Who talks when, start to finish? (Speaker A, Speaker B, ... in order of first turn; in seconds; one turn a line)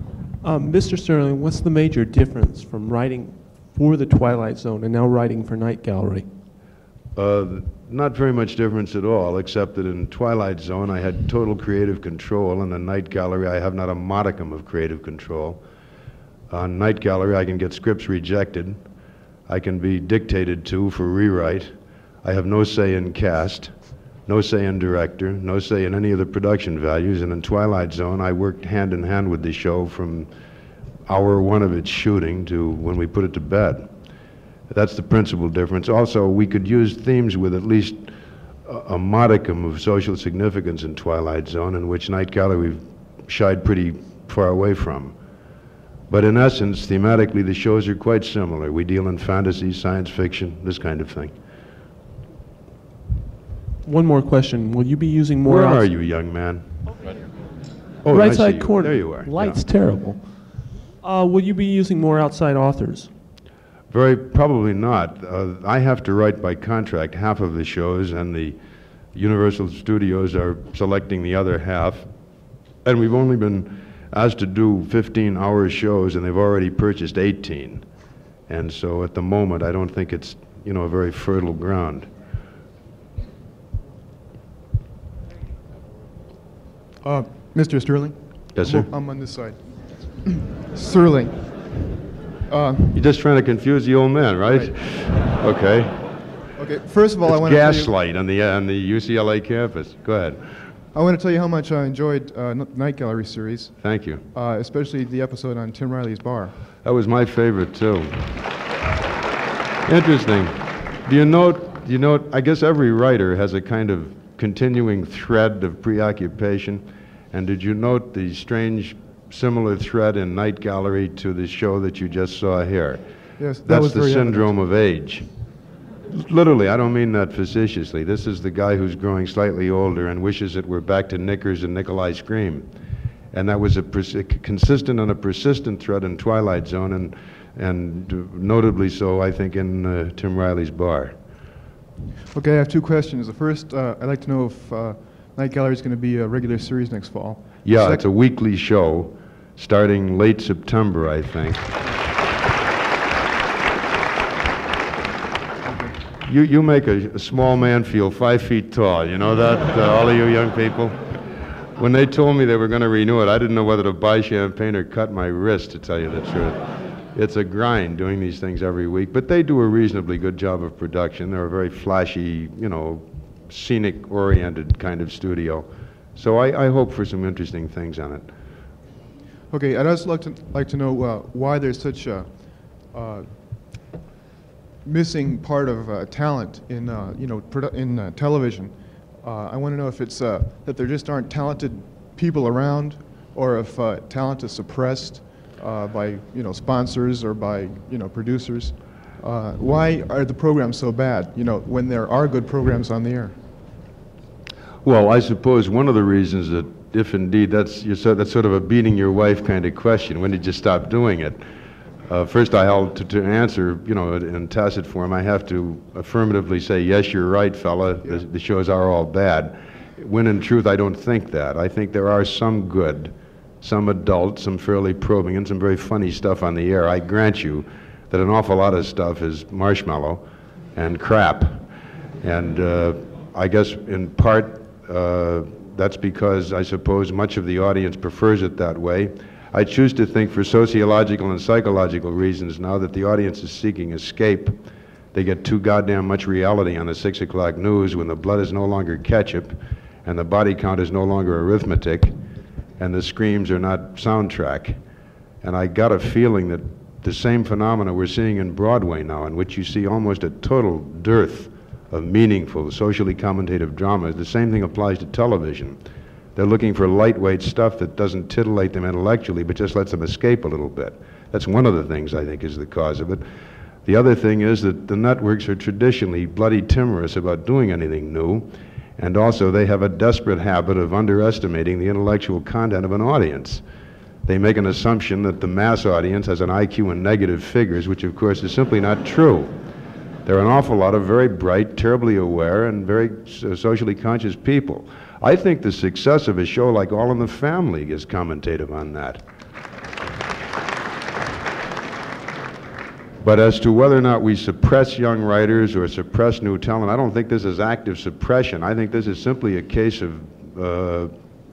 Speaker A: 0.4-6.3
Speaker B: 7.2-15.6
Speaker B: 16.5-18.8
Speaker B: 19.5-23.7
Speaker B: 24.3-30.3
Speaker B: 31.1-33.9
Speaker B: 34.7-38.1
Speaker B: 38.6-45.1
Speaker B: 46.1-51.3
Speaker A: 53.9-55.9
Speaker B: 55.4-56.7
Speaker B: 58.0-59.6
Speaker A: 58.1-63.1
Speaker B: 63.9-68.6
Speaker B: 69.1-72.1
Speaker B: 72.8-77.9
Speaker B: 78.5-82.1
Speaker C: 87.0-93.0
Speaker B: 88.5-88.9
Speaker B: 92.9-96.1
Speaker C: 96.6-97.9
Speaker B: 97.2-100.4
Speaker C: 100.9-103.8
Speaker B: 103.8-104.2
Speaker C: 104.3-106.5
Speaker B: 106.8-108.5
Speaker B: 109.8-123.0
Speaker C: 123.4-124.5
Speaker B: 123.6-125.3
Speaker B: 126.1-132.7
Speaker B: 133.3-141.2
Speaker C: 142.3-148.0
Speaker B: 147.6-151.7
Speaker C: 155.6-156.0
Speaker B: 156.2-161.1
Speaker B: 161.8-166.6
Speaker B: 167.1-178.3
Speaker C: 179.5-183.9
Speaker C: 184.8-203.4
Speaker B: 204.8-211.4
Speaker B: 212.1-230.2
Speaker B: 230.8-231.6
Speaker B: 232.2-244.6
Speaker B: 245.1-252.2
Speaker B: 252.8-254.8
Speaker B: 255.4-265.8
Speaker B: 266.4-273.2
Speaker B: 273.9-283.6
Speaker B: 284.2-289.6
Speaker B: 290.2-299.2
Speaker B: 303.2-311.1